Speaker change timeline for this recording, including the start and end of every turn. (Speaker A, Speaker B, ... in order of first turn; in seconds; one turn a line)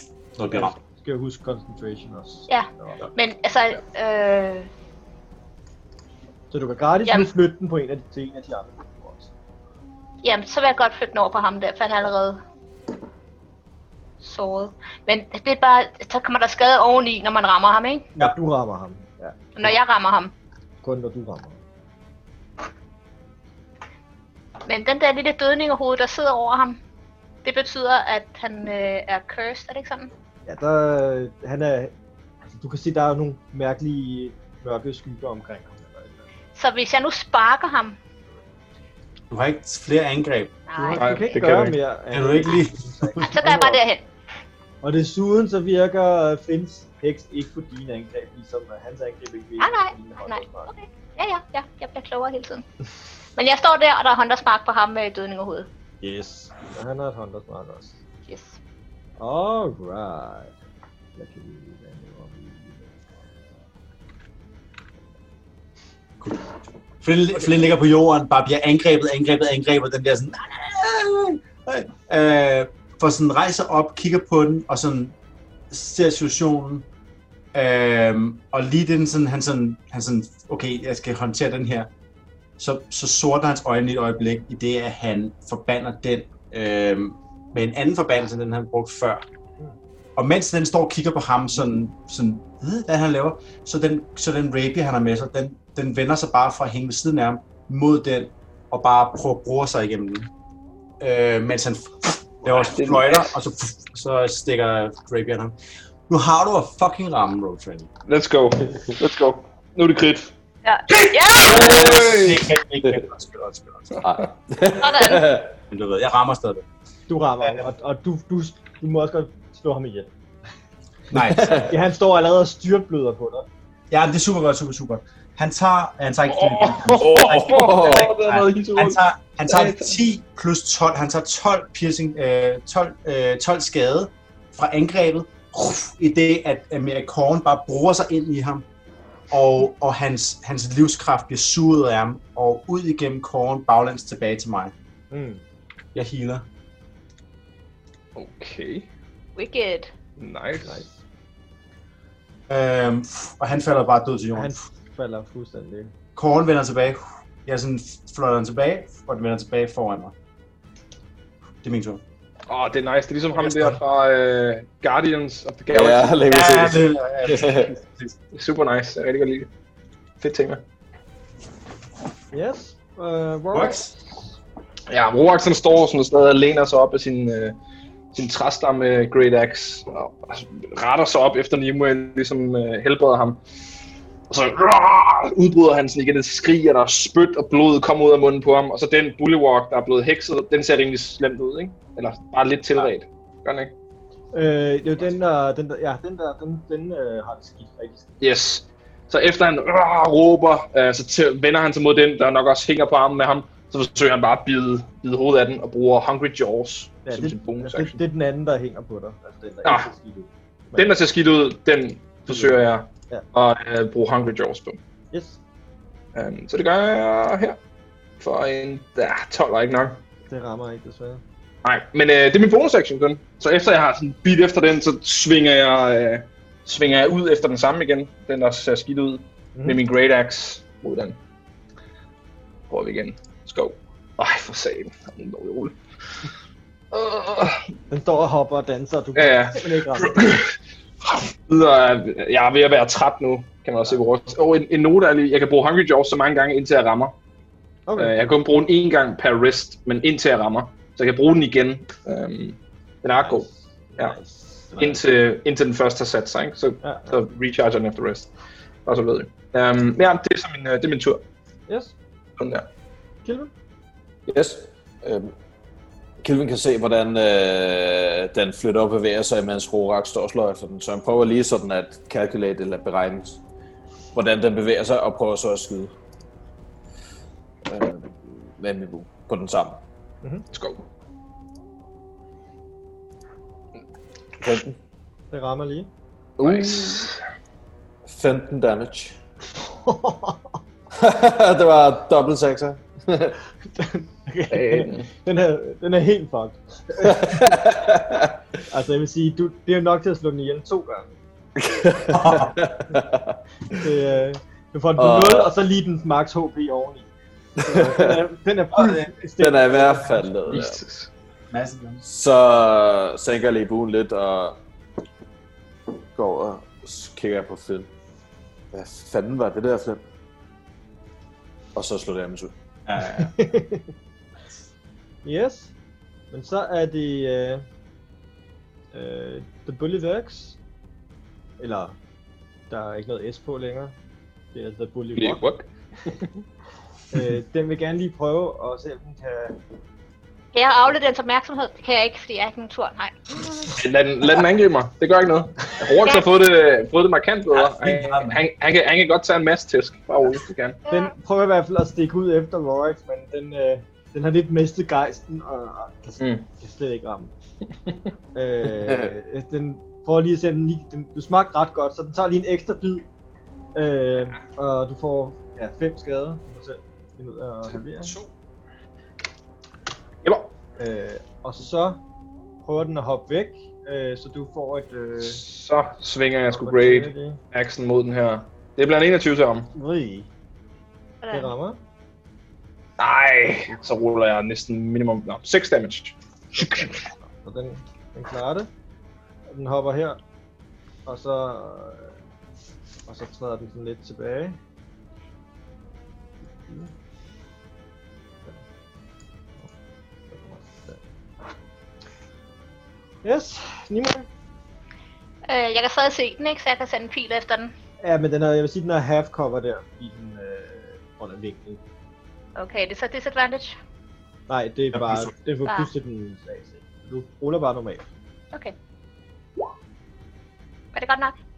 Speaker A: 0.3-0.8
Speaker B: 0.5-3.0
Speaker C: 2.5-4.7
Speaker B: 6.5-9.3
Speaker C: 10.2-12.4
Speaker C: 14.2-18.1
Speaker B: 18.2-19.7
Speaker C: 19.6-20.3
Speaker B: 20.8-21.6
Speaker C: 24.7-26.8
Speaker C: 27.4-30.1
Speaker B: 30.4-31.9
Speaker B: 32.5-36.3
Speaker C: 36.5-38.0
Speaker A: 39.3-40.6
Speaker C: 40.7-41.4
Speaker B: 40.7-43.8
Speaker D: 41.0-41.8
Speaker A: 42.1-43.1
Speaker C: 43.2-44.0
Speaker B: 44.8-50.7
Speaker C: 49.6-52.6
Speaker C: 53.4-55.7
Speaker B: 56.0-58.0
Speaker C: 58.2-58.6
Speaker B: 59.2-60.5
Speaker B: 61.1-62.8
Speaker A: 66.2-66.5
Speaker A: 67.0-75.1
Speaker A: 75.7-76.9
Speaker A: 77.5-81.9
Speaker A: 82.6-89.2
Speaker A: 90.2-100.3
Speaker A: 101.0-105.5
Speaker D: 102.5-103.3
Speaker A: 106.1-107.9
Speaker D: 108.0-110.3
Speaker C: 110.6-111.8
Speaker D: 110.9-112.5
Speaker A: 111.5-114.1
Speaker E: 114.0-115.5
Speaker C: 114.8-115.3
Speaker A: 115.7-116.6
Speaker B: 117.1-120.1
Speaker A: 121.1-121.7
Speaker E: 121.2-121.7
Speaker B: 121.6-123.5
Speaker A: 123.9-138.7
Speaker D: 126.3-130.0
Speaker E: 127.2-128.1
Speaker A: 139.3-144.7
Speaker B: 145.1-145.4
Speaker A: 145.9-146.4
Speaker D: 148.2-148.9
Speaker C: 149.3-149.9
Speaker D: 150.2-150.8
Speaker B: 150.6-151.0
Speaker A: 152.5-154.6
Speaker B: 154.3-155.9
Speaker A: 156.2-160.1
Speaker A: 161.6-162.0
Speaker D: 162.5-166.2
Speaker A: 163.4-163.8
Speaker E: 165.7-167.7
Speaker A: 166.3-168.2
Speaker D: 168.3-169.5
Speaker D: 170.2-170.6
Speaker B: 172.3-174.0
Speaker A: 173.5-173.9
Speaker D: 174.9-177.6
Speaker D: 178.1-183.4
Speaker D: 184.3-193.7
Speaker B: 194.3-198.1
Speaker D: 198.2-208.0
Speaker B: 207.1-210.9
Speaker D: 209.6-209.9
Speaker D: 210.7-214.8
Speaker B: 212.3-213.2
Speaker B: 215.1-215.4
Speaker D: 216.1-217.6
Speaker D: 218.2-220.0
Speaker B: 220.3-221.2
Speaker D: 221.6-231.2
Speaker D: 232.7-235.8
Speaker D: 236.9-237.7
Speaker B: 237.9-240.4
Speaker D: 239.2-240.5
Speaker D: 241.0-247.1
Speaker B: 247.9-248.1
Speaker D: 248.0-254.1
Speaker B: 253.2-255.0
Speaker D: 254.8-258.3
Speaker B: 256.8-257.1
Speaker D: 258.9-261.2
Speaker B: 261.7-261.9
Speaker D: 262.4-262.6
Speaker B: 263.2-263.5
Speaker E: 264.3-265.3
Speaker E: 266.2-273.4
Speaker E: 274.1-275.9
Speaker E: 277.7-279.8
Speaker D: 280.5-280.8
Speaker E: 284.4-284.8
Speaker B: 285.3-285.9
Speaker E: 286.4-287.0
Speaker D: 286.4-287.2
Speaker E: 288.1-289.1
Speaker B: 289.7-290.6
Speaker E: 291.0-293.4
Speaker B: 293.7-297.5
Speaker D: 294.5-295.1
Speaker E: 297.0-298.3
Speaker B: 298.7-301.1
Speaker E: 301.6-303.8
Speaker A: 302.1-302.6
Speaker B: 303.7-307.1
Speaker E: 305.0-305.5
Speaker B: 307.6-310.3
Speaker E: 307.6-308.2
Speaker A: 308.8-309.1
Speaker E: 309.4-310.8
Speaker D: 310.5-311.1
Speaker A: 311.5-312.0
Speaker E: 312.0-314.6
Speaker E: 316.1-317.9
Speaker E: 318.7-320.0
Speaker E: 321.7-322.5
Speaker A: 322.9-323.3
Speaker B: 323.1-323.9
Speaker B: 325.2-325.7
Speaker B: 326.3-327.6
Speaker B: 328.9-330.6
Speaker B: 331.6-332.0
Speaker B: 332.7-333.9
Speaker B: 334.5-335.4
Speaker D: 335.2-336.3
Speaker B: 337.1-339.6
Speaker C: 340.5-343.8
Speaker D: 343.8-350.8
Speaker A: 347.5-348.4
Speaker C: 350.9-351.1
Speaker B: 350.9-357.3
Speaker D: 356.2-356.4
Speaker B: 358.3-363.1
Speaker B: 363.7-368.1
Speaker D: 368.0-368.3
Speaker D: 370.2-370.5
Speaker B: 370.8-372.0
Speaker B: 372.6-375.4
Speaker D: 375.2-379.7
Speaker B: 376.5-377.4
Speaker B: 379.7-380.3
Speaker C: 381.2-381.5
Speaker B: 381.3-381.8
Speaker D: 383.0-387.0
Speaker B: 386.6-388.7
Speaker B: 389.5-390.2
Speaker B: 391.1-392.1
Speaker B: 393.1-394.6
Speaker B: 396.6-396.9
Speaker B: 400.3-401.0
Speaker B: 403.2-404.3
Speaker C: 405.5-407.7
Speaker B: 408.0-411.8
Speaker C: 412.6-413.8
Speaker B: 414.5-418.1
Speaker A: 414.9-415.3
Speaker C: 420.9-421.3